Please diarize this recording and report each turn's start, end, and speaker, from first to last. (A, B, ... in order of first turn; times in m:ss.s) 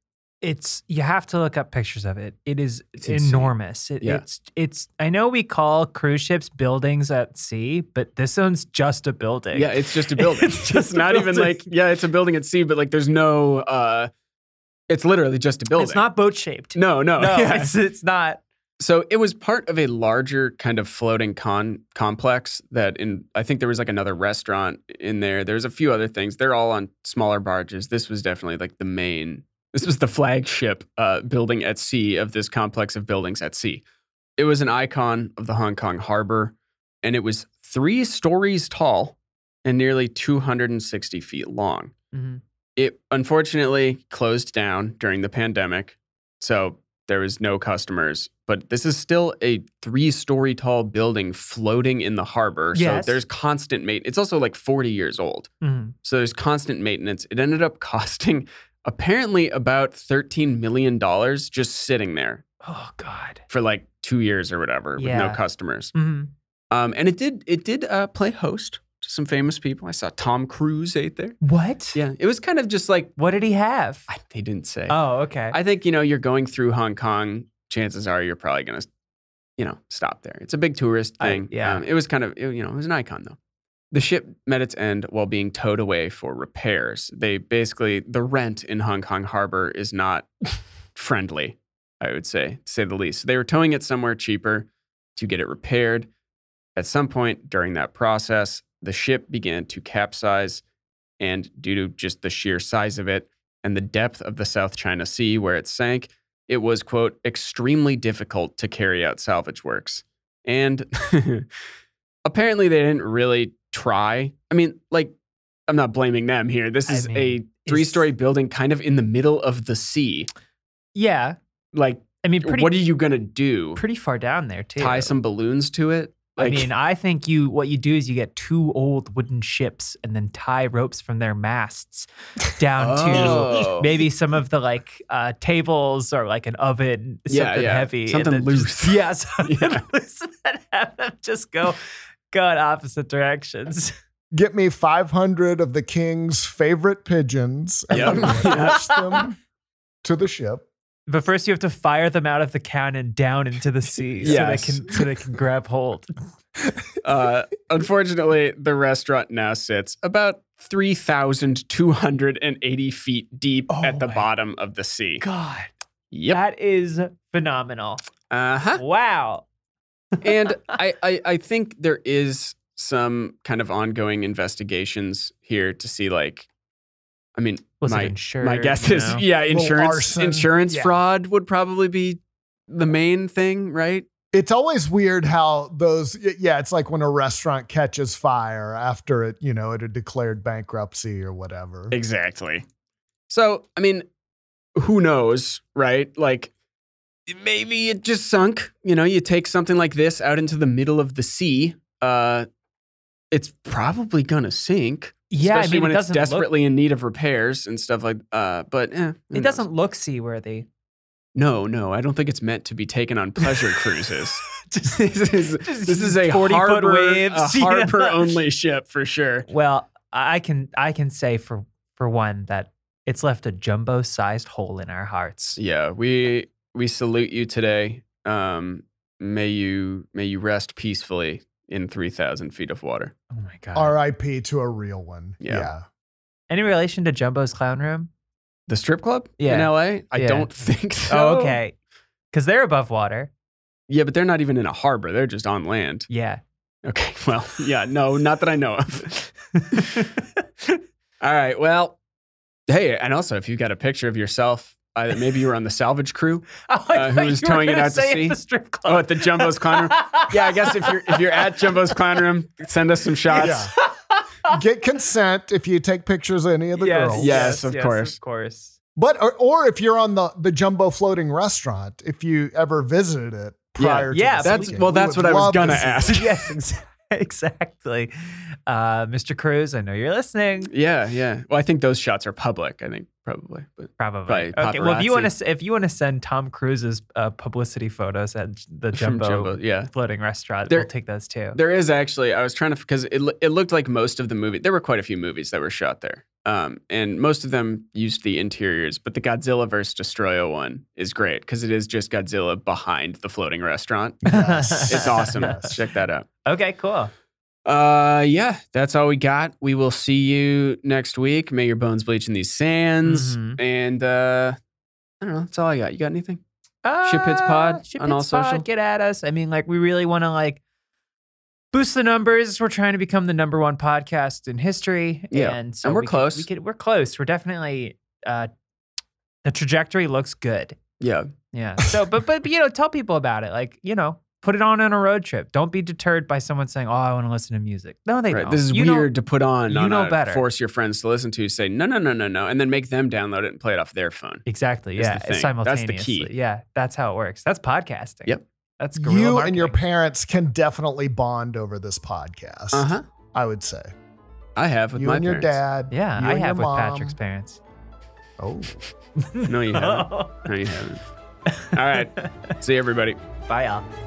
0:00.4-0:11.6 A
0:03.0-0:04.2 B
0:09.5-0:14.1 B
0:14.9-0:16.1 B
0:15.7-0:18.4 A
0:16.7-0:17.8 B
0:18.8-0:33.8 B
0:34.4-0:41.9 B
0:42.1-0:42.4 A
0:42.8-0:55.5 B
0:52.7-0:53.2 A
0:55.6-0:55.9 A
0:56.0-1:02.4 B
1:02.6-1:03.4 A
1:03.5-1:05.9 B
1:05.0-1:05.4 A
1:05.9-1:06.3 A
1:06.7-1:11.4 B
1:11.4-1:12.0 A
1:11.9-1:13.1 B
1:13.2-1:14.1 A
1:14.1-1:18.9 B
1:14.9-1:15.6 A
1:19.6-1:23.4 B
1:21.2-1:21.8 A
1:23.9-1:30.3 B
1:30.9-1:36.1 B
1:36.8-1:40.6 B
1:41.2-1:51.5 B
1:52.2-1:55.1 B
1:55.7-2:00.3 B
1:56.9-1:58.0 A
2:00.9-2:01.4 A
2:01.7-2:03.8 B
2:02.2-2:02.7 A
2:03.8-2:05.1 A
2:04.8-2:06.7 B
2:06.4-2:23.9 A
2:12.8-2:14.0 B
2:17.3-2:19.8 B
2:24.3-2:29.4 C
2:27.9-2:28.8 B
2:28.0-2:29.3 A
2:30.0-2:30.6 C
2:31.1-2:36.1 A
2:34.2-2:34.8 B
2:37.0-2:45.2 B
2:43.7-2:44.3 A
2:45.2-2:45.7 A
2:46.1-2:46.4 B
2:46.3-2:48.0 A
2:48.3-2:48.8 B
2:48.8-2:49.4 A
2:50.2-2:56.5 B
2:57.3-3:04.0 B
2:57.8-2:59.2 A
2:59.5-3:01.0 C
3:04.3-3:11.9 C
3:11.9-3:12.6 B
3:13.3-3:14.0 B
3:14.8-3:16.5 B
3:17.3-3:22.5 B
3:23.3-3:29.6 B
3:25.3-3:26.5 A
3:29.3-3:30.7 A
3:31.3-3:39.5 B
3:33.4-3:33.8 A
3:34.6-3:35.0 A
3:35.6-3:38.2 A
3:39.5-3:45.6 A
3:45.6-3:53.1 B
3:53.3-3:53.9 A
3:53.7-3:55.8 C
3:55.4-3:55.7 B
3:56.5-3:58.1 A
3:58.7-4:01.6 B
3:59.4-4:00.5 A
4:01.1-4:01.7 A
4:02.3-4:03.3 A
4:03.9-4:06.1 B
4:06.1-4:06.4 A
4:06.8-4:10.1 B
4:09.5-4:10.4 A
4:11.2-4:12.0 B
4:12.7-4:23.6 B
4:16.6-4:21.7 A
4:23.3-4:24.5 A
4:23.4-4:23.7 C
4:24.5-4:27.6 C
4:26.7-4:28.7 A
4:27.1-4:28.2 B
4:29.0-4:36.0 C
4:33.8-4:36.5 B
4:34.1-4:35.0 A
4:35.7-4:40.7 A
4:40.7-4:45.3 B
4:44.0-4:51.6 A
4:48.9-4:49.9 B
4:51.5-5:04.2 B
5:04.2-5:05.8 C
5:04.3-5:05.8 A
5:04.8-5:06.3 B
5:06.4-5:07.1 A
5:07.6-5:14.6 B
5:13.0-5:13.6 A
5:15.2-5:16.4 B
5:16.8-5:20.6 A
5:17.0-5:18.6 B
5:21.7-5:28.5 A
5:25.3-5:26.5 B
5:29.4-5:30.8 A
5:31.0-5:31.3 B
5:31.5-5:39.1 A
5:38.3-5:44.4 B
5:39.7-5:40.4 A
5:44.4-5:49.8 A
5:45.0-5:46.3 B
5:49.0-5:53.9 C
5:52.7-5:53.0 B
5:54.6-5:55.6 B
5:55.0-5:57.2 C
5:55.9-5:57.6 A
5:58.4-5:58.8 C
5:59.2-6:00.5 A
5:59.4-6:01.0 B
6:01.5-6:02.5 A
6:01.7-6:03.2 B
6:03.5-6:03.8 A